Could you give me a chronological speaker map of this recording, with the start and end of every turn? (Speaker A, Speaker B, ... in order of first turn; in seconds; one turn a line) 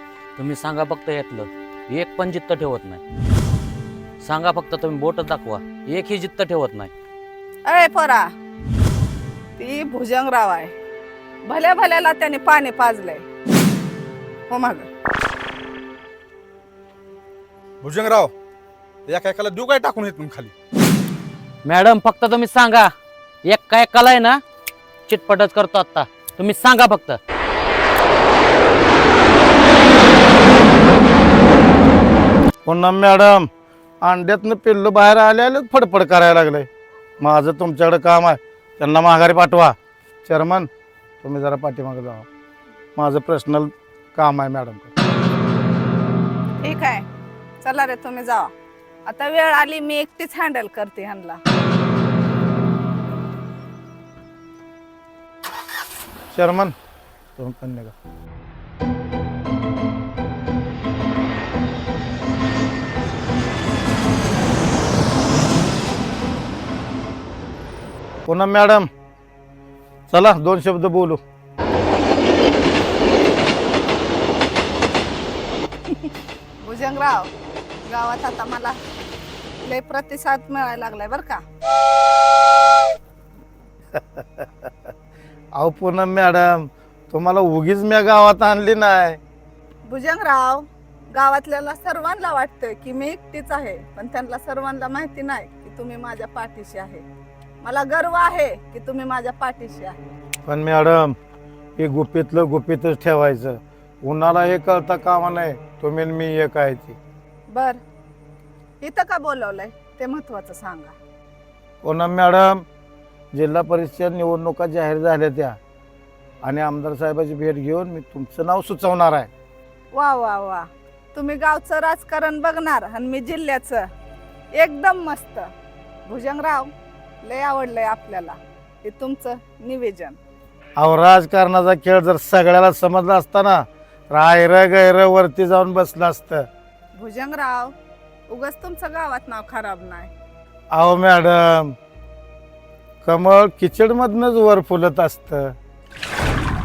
Speaker A: 0.4-3.0
Speaker A: 4.2-6.9
Speaker B: 7.7-8.3
Speaker B: 9.6-10.7
Speaker B: 11.5-13.2
Speaker B: 14.5-14.9
Speaker C: 17.8-18.3
Speaker C: 19.1-20.5
Speaker A: 21.6-22.9
Speaker A: 23.4-24.4
Speaker A: 25.1-27.2
Speaker D: 32.7-33.5
Speaker D: 34.0-36.7
Speaker D: 37.2-39.8
Speaker D: 40.3-40.7
Speaker D: 41.2-42.3
Speaker D: 43.0-44.9
Speaker B: 46.6-47.1
Speaker B: 47.6-48.5
Speaker B: 49.1-51.4
Speaker D: 56.3-56.7
Speaker D: 57.4-57.9
Speaker D: 68.3-68.9
Speaker D: 70.1-71.2
Speaker B: 76.6-77.3
Speaker B: 77.9-78.8
Speaker B: 79.6-81.4
Speaker D: 83.9-84.7
Speaker D: 85.6-89.2
Speaker B: 89.9-97.0
Speaker B: 97.6-100.0
Speaker D: 100.5-101.2
Speaker D: 101.8-107.0
Speaker B: 107.5-107.8
Speaker B: 108.8-110.9
Speaker D: 111.8-112.7
Speaker D: 113.3-115.6
Speaker D: 116.4-119.3
Speaker B: 119.9-123.9
Speaker B: 124.5-125.5
Speaker B: 126.1-126.7
Speaker B: 127.2-130.2
Speaker D: 130.8-136.5
Speaker B: 136.9-137.7
Speaker B: 138.3-140.1
Speaker D: 140.7-141.8
Speaker D: 143.0-145.6